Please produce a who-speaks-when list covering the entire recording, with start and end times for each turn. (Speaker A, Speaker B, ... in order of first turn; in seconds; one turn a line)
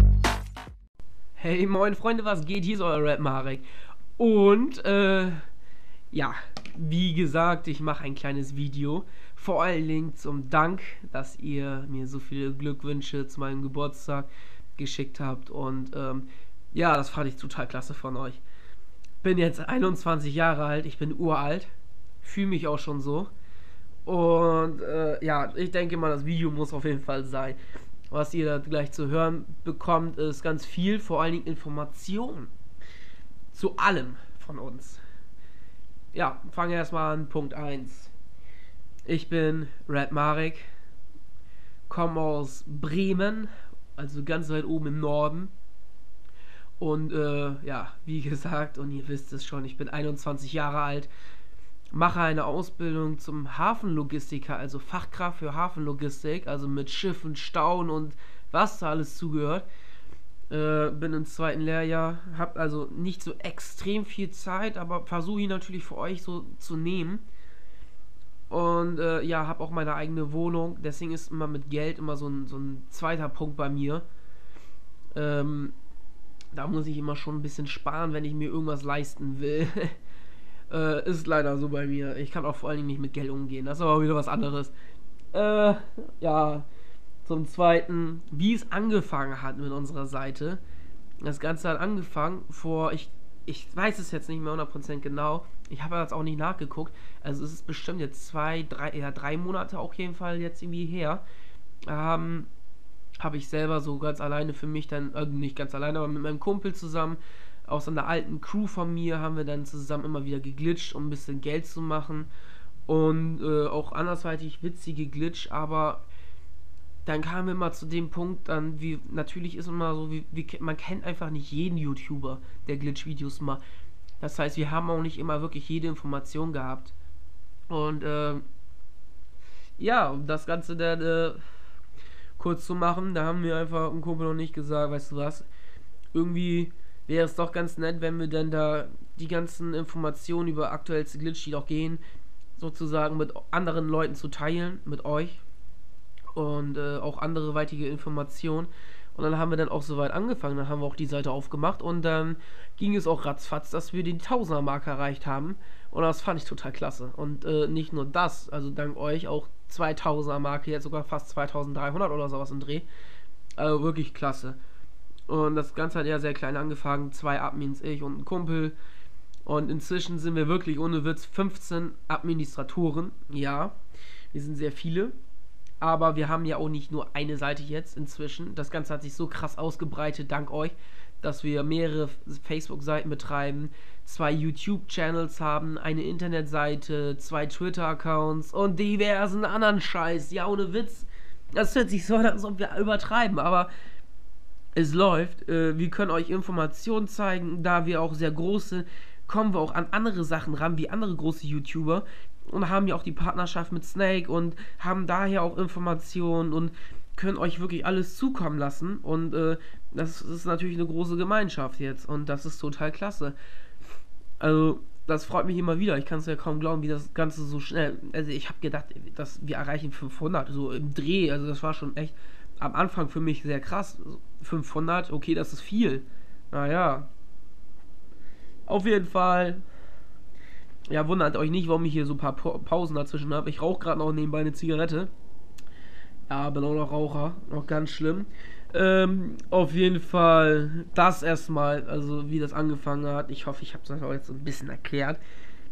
Speaker A: 1.4-5.5
Speaker A: 6.1-18.4
Speaker A: 19.2-21.7
Speaker A: 22.2-23.3
Speaker A: 24.1-27.6
Speaker A: 28.1-32.5
Speaker A: 33.5-35.0
Speaker A: 36.1-38.1
Speaker A: 39.1-40.7
Speaker A: 41.9-45.5
Speaker A: 46.8-51.1
Speaker A: 51.9-59.7
Speaker A: 60.5-67.2
Speaker A: 68.5-74.0
Speaker A: 75.1-75.8
Speaker A: 76.5-80.0
Speaker A: 80.7-84.7
Speaker A: 85.3-86.7
Speaker A: 87.2-90.6
Speaker A: 91.2-101.2
Speaker A: 101.9-102.5
Speaker A: 103.2-112.3
Speaker A: 112.9-116.0
Speaker A: 117.0-123.6
Speaker A: 124.2-126.9
Speaker A: 127.7-128.4
Speaker A: 129.8-131.4
Speaker A: 132.4-135.5
Speaker A: 136.1-142.0
Speaker A: 142.6-145.4
Speaker A: 146.3-162.9
Speaker A: 163.6-164.6
Speaker A: 165.3-168.8
Speaker A: 169.4-173.8
Speaker A: 174.3-175.2
Speaker A: 175.8-193.7
Speaker A: 194.8-213.4
Speaker A: 214.4-227.1
Speaker A: 228.7-229.6
Speaker A: 230.9-235.1
Speaker A: 236.3-245.2